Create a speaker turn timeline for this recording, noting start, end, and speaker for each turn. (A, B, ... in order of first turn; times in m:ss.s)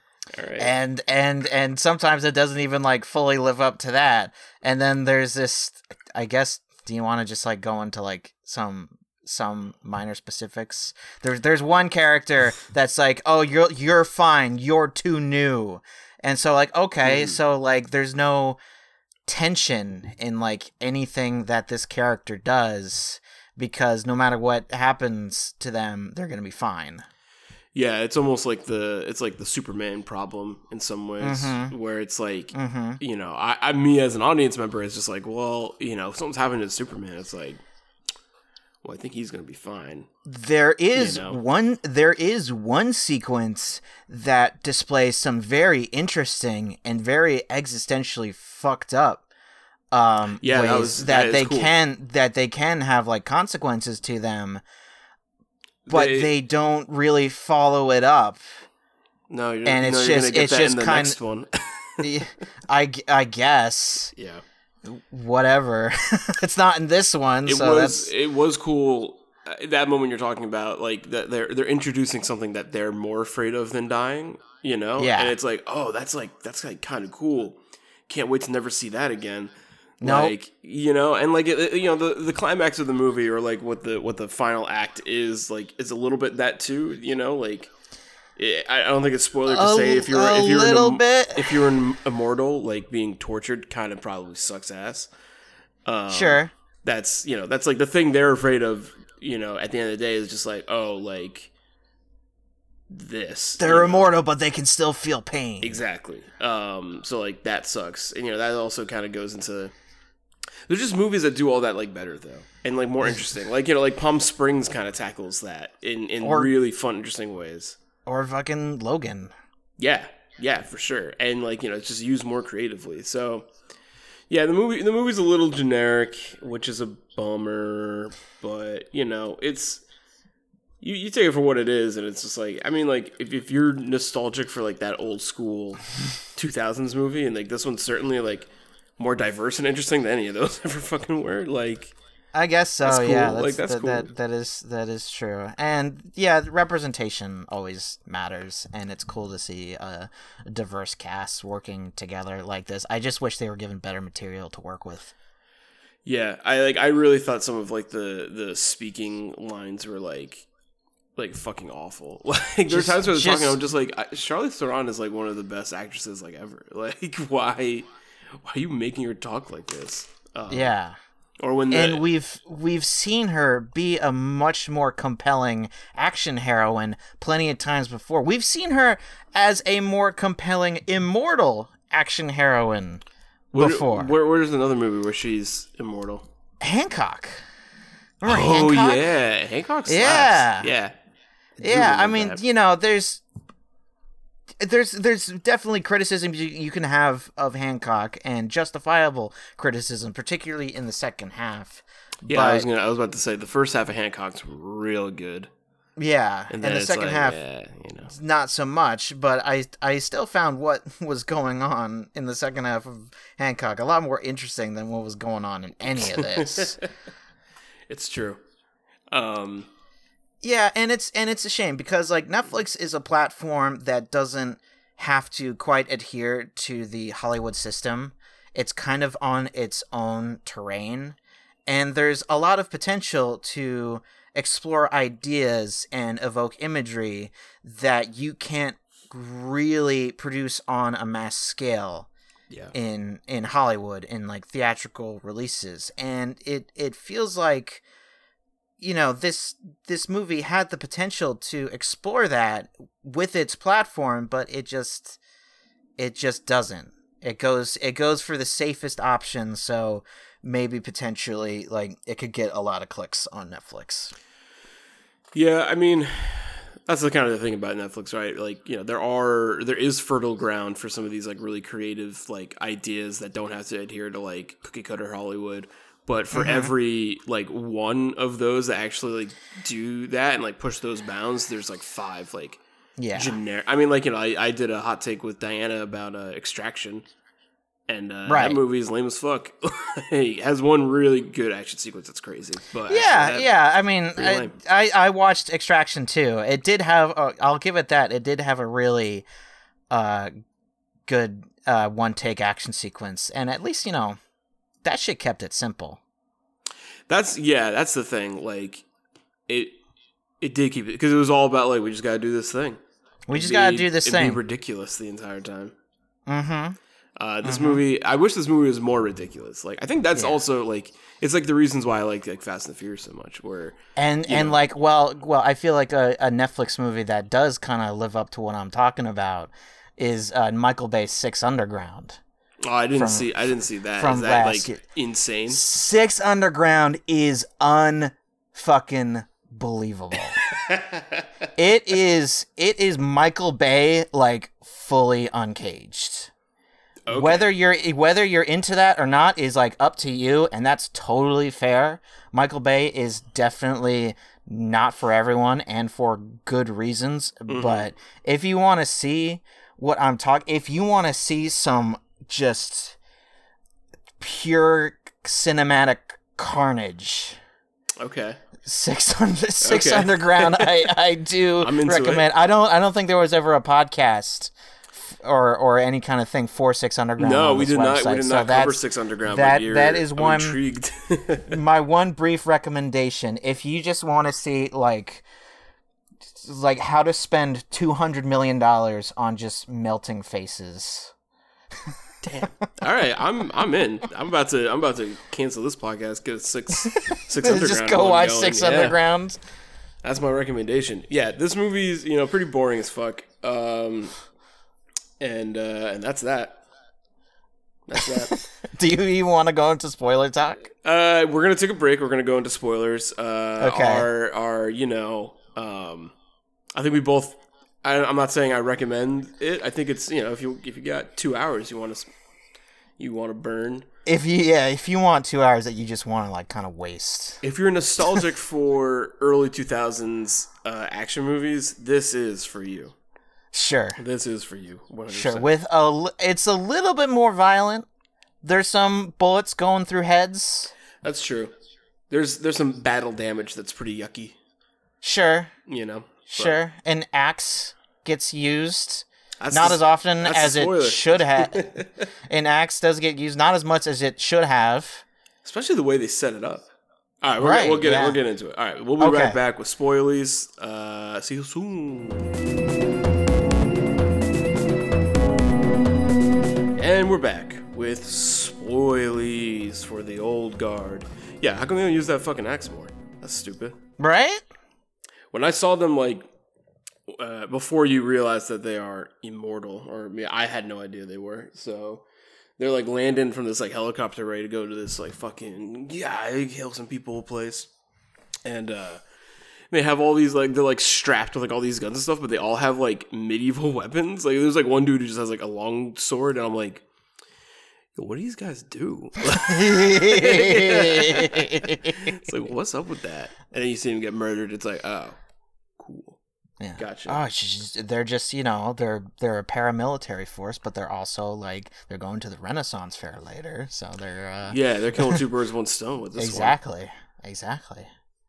0:00.3-0:00.7 A
0:00.6-0:18.6 B
0:17.0-0:17.4 A
0:19.2-0:27.0 B
0:27.7-0:37.6 A
0:31.2-0:31.7 B
0:32.5-0:33.0 B
0:38.8-0:40.1 A
0:40.2-0:49.2 B
0:40.9-0:41.4 A
0:49.9-0:54.6 B
0:50.4-0:51.7 A
0:55.8-0:56.3 A
0:55.9-0:58.5 B
0:59.3-1:02.2 A
0:59.6-1:01.2 B
1:02.0-1:04.1 B
1:04.1-1:04.4 A
1:04.8-1:08.1 B
1:07.4-1:19.5 A
1:15.0-1:15.3 B
1:20.0-1:20.3 B
1:20.0-1:27.7 A
1:28.4-1:35.1 A
1:29.5-1:31.7 B
1:35.8-1:41.5 A
1:36.1-1:36.5 B
1:42.9-1:44.1 A
1:43.6-1:45.8 B
1:45.6-1:49.7 A
1:50.7-1:57.8 A
1:56.2-1:56.5 B
1:58.0-1:59.3 B
1:59.8-2:03.5 A
2:04.3-2:09.8 A
2:10.8-2:15.8 A
2:16.3-2:21.9 A
2:22.3-2:35.1 B
2:22.8-2:24.1 A
2:36.0-2:40.5 A
2:41.2-2:50.7 A
2:42.7-2:43.6 B
2:50.5-2:51.0 B
2:51.4-2:52.0 A
2:51.7-3:03.0 B
3:03.5-3:06.2 A
3:03.5-3:04.1 B
3:06.6-3:07.4 B
3:08.2-3:09.0 B
3:08.2-3:10.9 A
3:09.9-3:10.7 B
3:11.6-3:12.4 A
3:11.6-3:13.2 B
3:14.6-3:22.7 B
3:22.2-3:25.5 A
3:26.0-3:27.4 B
3:26.5-3:28.1 A
3:28.1-3:36.8 B
3:36.1-3:36.9 A
3:37.9-3:38.4 A
3:39.1-3:39.7 A
3:40.4-4:02.1 B
4:02.7-4:07.8 B
4:08.8-4:15.2 B
4:16.0-4:24.1 B
4:25.3-4:42.6 A
4:36.3-4:36.7 B
4:43.0-4:43.4 B
4:43.1-4:47.0 A
4:47.9-4:53.5 A
4:48.3-4:48.6 B
4:52.9-4:59.2 B
4:54.1-4:54.6 A
4:59.9-5:00.3 B
5:01.1-5:04.2 B
5:04.8-5:06.0 B
5:07.1-5:08.8 A
5:09.5-5:09.8 A
5:10.4-5:12.8 A
5:13.3-5:14.4 B
5:13.3-5:15.7 A
5:16.3-5:16.8 B
5:17.2-5:24.6 A
5:17.4-5:17.8 B
5:20.1-5:20.4 B
5:24.0-5:32.2 B
5:32.6-5:35.6 A
5:32.9-5:33.3 B
5:33.9-5:34.8 B
5:35.5-5:40.4 B
5:40.5-5:41.2 A
5:41.6-5:46.3 B
5:47.1-5:47.5 A
5:47.1-6:03.0 B
5:57.5-5:57.9 A
6:04.2-6:07.4 B
6:08.0-6:08.4 A
6:08.6-6:20.6 B
6:09.6-6:10.7 A
6:11.6-6:12.3 A
6:17.2-6:21.6 A
6:21.5-6:25.2 B
6:26.4-6:31.1 B
6:31.9-6:32.5 B
6:32.2-6:39.0 A
6:37.0-6:39.4 B
6:40.0-6:44.1 A
6:45.2-6:46.6 A
6:47.9-6:48.4 A
6:48.5-6:50.7 B
6:50.8-6:56.1 A
6:53.6-6:54.1 B
6:56.8-7:02.1 A
7:03.0-7:03.9 A
7:04.0-7:07.4 B
7:07.4-7:12.9 A
7:13.5-7:14.0 B
7:14.0-7:15.5 A
7:15.1-7:17.9 B
7:18.4-7:20.7 B
7:21.0-7:21.5 A
7:22.1-7:24.4 A
7:25.0-7:25.5 B
7:25.6-7:26.6 A
7:26.3-7:35.0 B
7:29.4-7:32.1 A
7:35.4-7:36.7 A
7:37.2-7:42.3 A
7:37.4-7:38.2 B
7:39.0-7:39.4 B
7:46.8-7:53.8 A
7:54.0-7:54.4 B
7:55.3-7:56.2 A
7:57.1-8:02.0 A
8:02.6-8:07.7 A
8:08.4-8:09.0 A
8:09.7-8:16.8 A
8:17.9-8:25.2 A
8:19.3-8:22.2 B
8:25.8-8:26.2 A
8:26.6-8:35.2 B
8:26.8-8:27.2 A
8:34.5-8:36.6 A
8:36.2-8:37.9 B